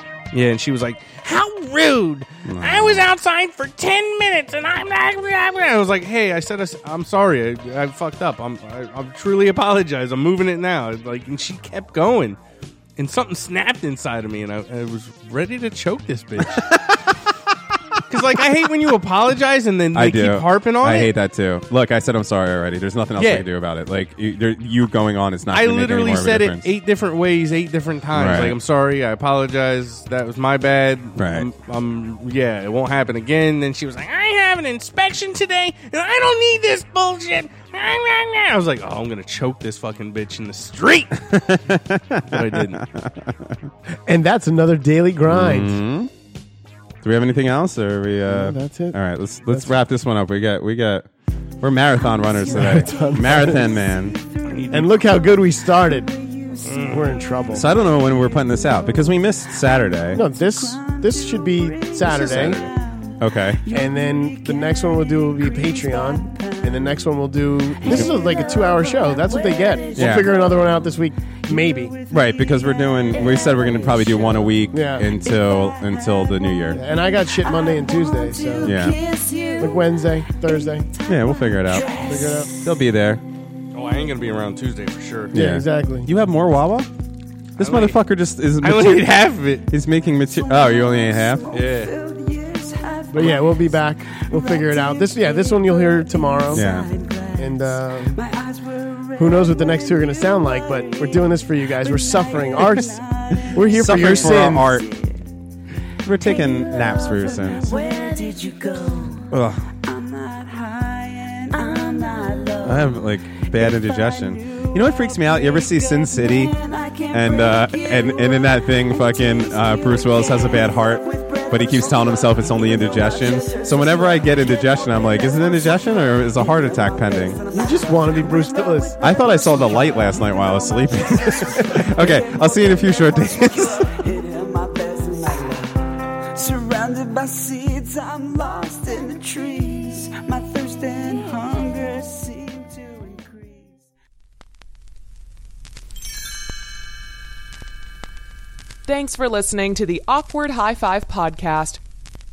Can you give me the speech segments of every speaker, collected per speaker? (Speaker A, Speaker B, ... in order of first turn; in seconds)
Speaker A: 0.3-12.4, 13.0-16.7, 18.1-21.1, 23.2-23.5, 25.5-41.3, 42.3-42.8, 54.5-54.9, 56.6-57.1, 62.1-62.7, 83.7-85.3, 87.6-88.0, 88.6-89.7, 91.5-91.9
Speaker B: 2.5-3.0, 16.6-17.0, 19.9-26.6, 28.1-28.6, 31.2-31.5, 41.3-43.7, 45.3-46.1, 47.0-51.1, 51.6-54.2, 57.5-60.2, 63.2-63.6, 69.9-70.3, 72.1-76.8, 78.6-79.0, 81.1-82.0, 82.5-83.2, 85.3-86.9, 87.6-91.5, 96.5-96.9, 103.7-104.8, 106.0-107.7, 109.3-109.7, 112.6-116.6, 117.1-127.4, 129.0-133.9
Speaker C: 43.9-45.8, 48.3-49.7, 52.5-53.7, 54.7-56.1, 56.8-57.7, 60.1-62.6, 63.7-71.9, 74.7-75.1, 76.7-78.8, 79.6-80.9, 82.0-82.5, 85.3-86.1, 93.1-96.7, 97.4-98.2, 99.2-103.0, 103.5-104.7, 127.5-129.0
Speaker D: 52.4-59.1, 60.1-82.8, 90.0-105.3, 106.0-143.8
Speaker E: 148.8-151.8